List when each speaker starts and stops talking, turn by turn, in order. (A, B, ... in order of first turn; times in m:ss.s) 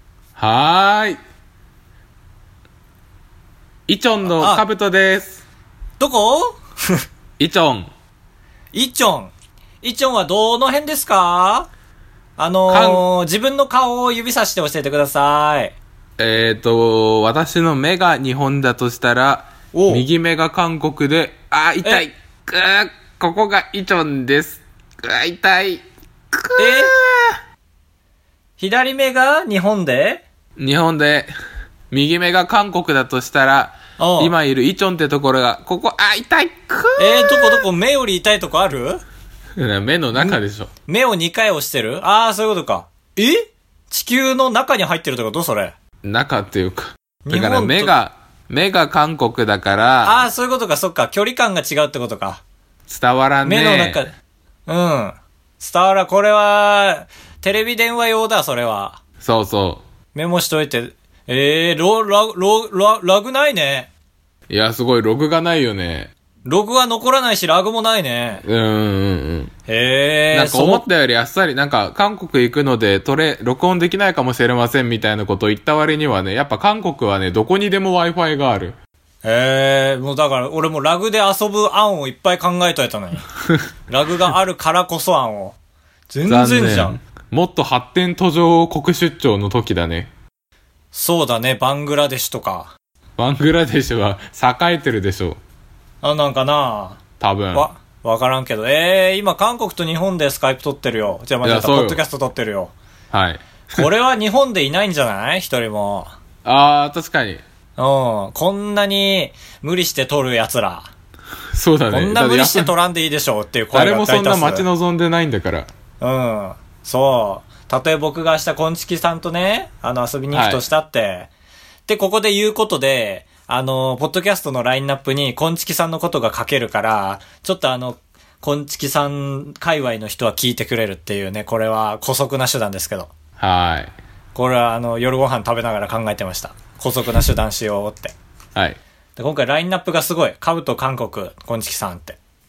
0:00.4-0:01.2 A
0:03.9-0:05.4 A
0:04.3-0:04.6 B
0:06.0-0:07.0 B
0:07.4-0:07.9 A
0:08.7-0:11.7 B
0:12.4-0:15.7 B
0:12.7-0:13.0 A
0:16.2-0:27.4 A
0:19.7-0:20.0 B
0:26.6-0:26.9 B
0:28.6-0:30.2 B
0:30.6-0:31.3 A
0:31.9-0:37.6 A
0:34.0-0:34.3 B
0:37.0-0:39.0 B
0:39.6-0:40.7 A
0:40.2-0:45.7 B
0:46.0-0:50.2 A
0:47.2-0:47.9 B
0:50.0-0:52.4 B
0:52.9-0:54.0 A
0:53.4-0:54.1 B
0:54.7-0:59.0 B
0:59.2-0:59.8 A
1:00.1-1:03.9 B
1:04.5-1:06.1 A
1:06.4-1:08.4 B
1:08.4-1:09.5 A
1:09.7-1:10.8 B
1:10.3-1:18.8 A
1:19.2-1:23.3 B
1:23.9-1:25.6 B
1:26.1-1:27.0 B
1:26.3-1:30.1 A
1:30.9-1:32.7 B
1:33.2-1:35.4 A
1:36.0-1:37.0 B
1:37.2-1:37.7 A
1:37.5-1:42.7 B
1:41.4-1:42.0 A
1:43.1-1:43.9 A
1:43.7-1:46.1 B
1:46.4-1:47.4 A
1:47.8-1:50.9 B
1:51.5-1:52.7 A
1:51.9-1:54.7 B
1:53.7-1:55.7 A
1:56.0-2:01.3 B
2:00.3-2:00.6 A
2:01.9-2:13.1 B
2:13.4-2:13.9 A
2:14.3-2:18.1 B
2:19.2-2:22.2 B